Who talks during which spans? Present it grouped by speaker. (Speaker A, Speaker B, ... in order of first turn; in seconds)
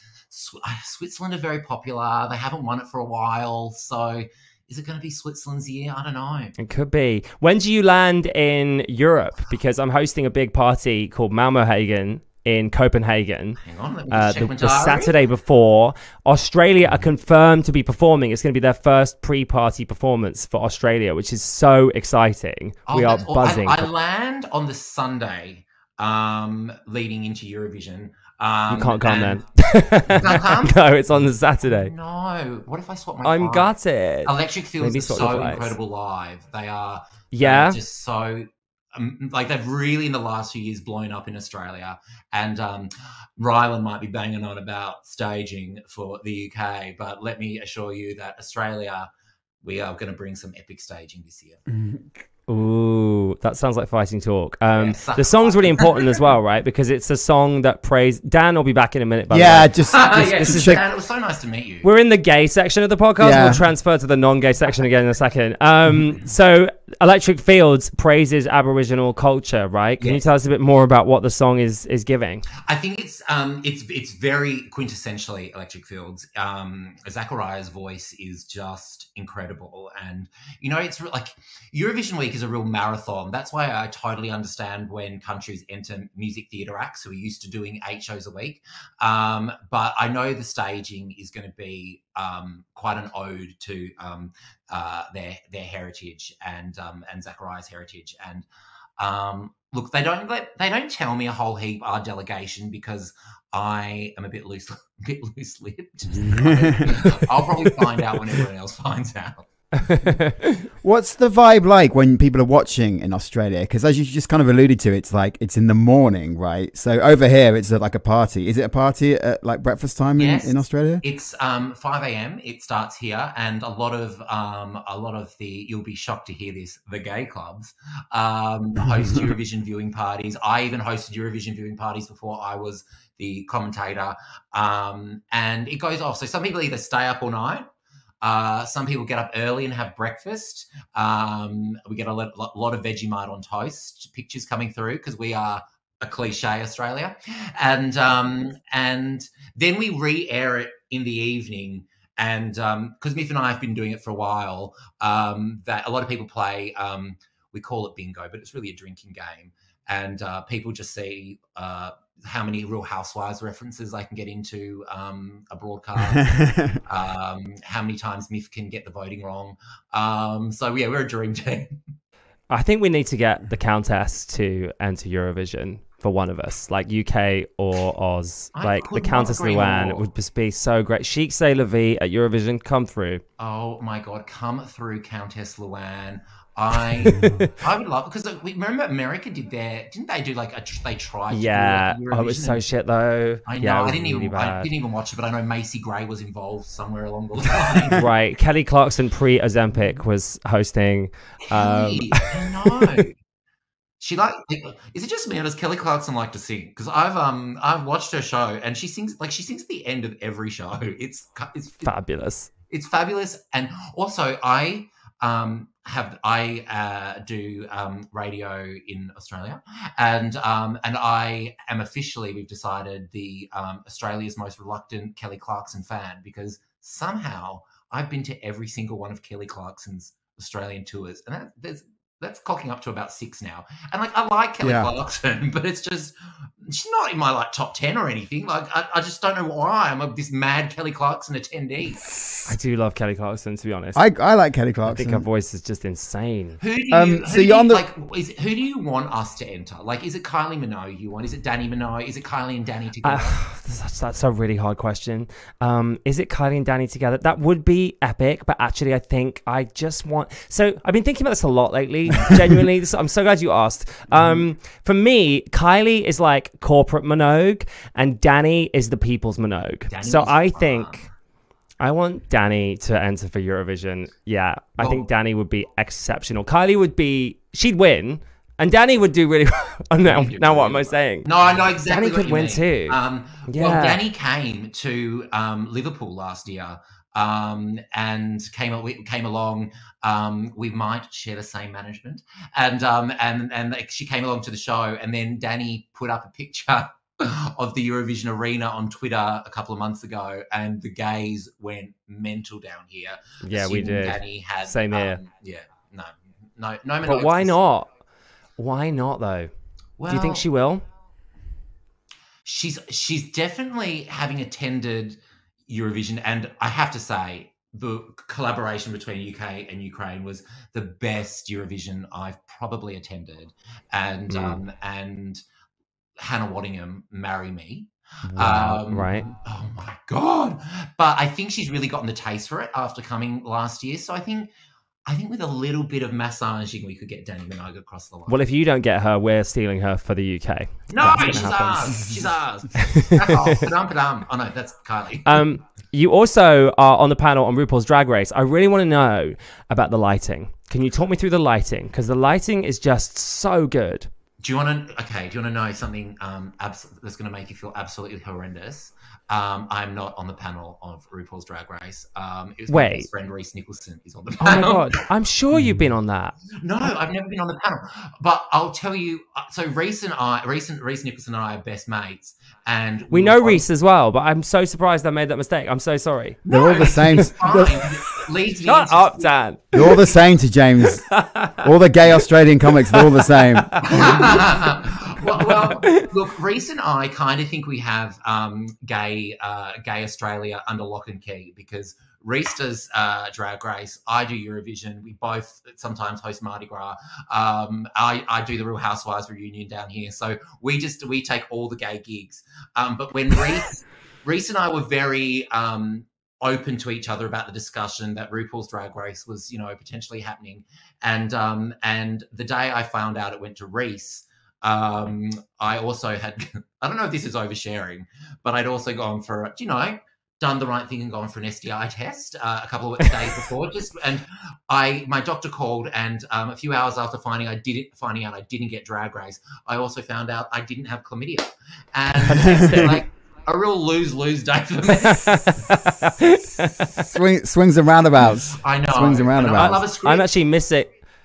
Speaker A: 0.3-6.5, 13.6-15.2, 22.9-29.4, 30.1-30.8, 31.6-33.7, 34.2-49.1, 49.6-51.6, 54.7-56.2, 59.9-61.9, 72.5-98.5, 99.0-109.5, 120.2-137.7, 138.2-171.8, 178.6-180.1, 183.4-192.6, 193.5-198.1, 201.5-203.2, 204.0-211.9, 212.7-242.1, 246.6-253.4, 269.9-271.1, 274.8-275.0, 280.0-307.6, 310.0-310.5, 312.4-325.4, 326.2-334.5, 335.1-338.4, 340.9-345.4, 354.4-365.0, 366.6-373.6, 376.5-379.3, 383.8-435.6, 438.5-440.3
Speaker B: 6.6-13.6, 14.1-23.9, 28.7-31.9, 33.2-35.8, 37.3-37.8, 52.5-60.8, 61.8-72.5, 109.8-110.6, 172.5-183.2, 191.3-194.7, 197.9-203.0, 211.8-212.5, 242.5-244.0, 244.9-246.6, 253.0-271.0, 271.8-281.3, 281.8-283.0, 283.5-284.0, 303.4-305.2, 307.1-307.9, 308.6-309.5, 310.1-310.9, 324.3-324.6, 328.3-329.2, 338.3-342.1, 342.8-343.6, 345.2-354.1, 362.7-363.1, 364.4-366.4, 373.1-376.4, 378.1-380.1, 380.8-381.7, 382.8-384.6, 385.3-386.0, 432.2-433.0, 435.0-437.1, 440.1-440.9
Speaker C: 51.7-52.0, 59.3-60.8, 63.2-63.6, 106.1-107.3, 110.8-121.0, 166.2-166.8, 234.6-234.9, 243.9-245.3, 246.9-247.8, 365.5-365.9, 376.5-377.8, 379.7-381.1, 381.6-384.1, 432.3-433.0, 437.0-439.9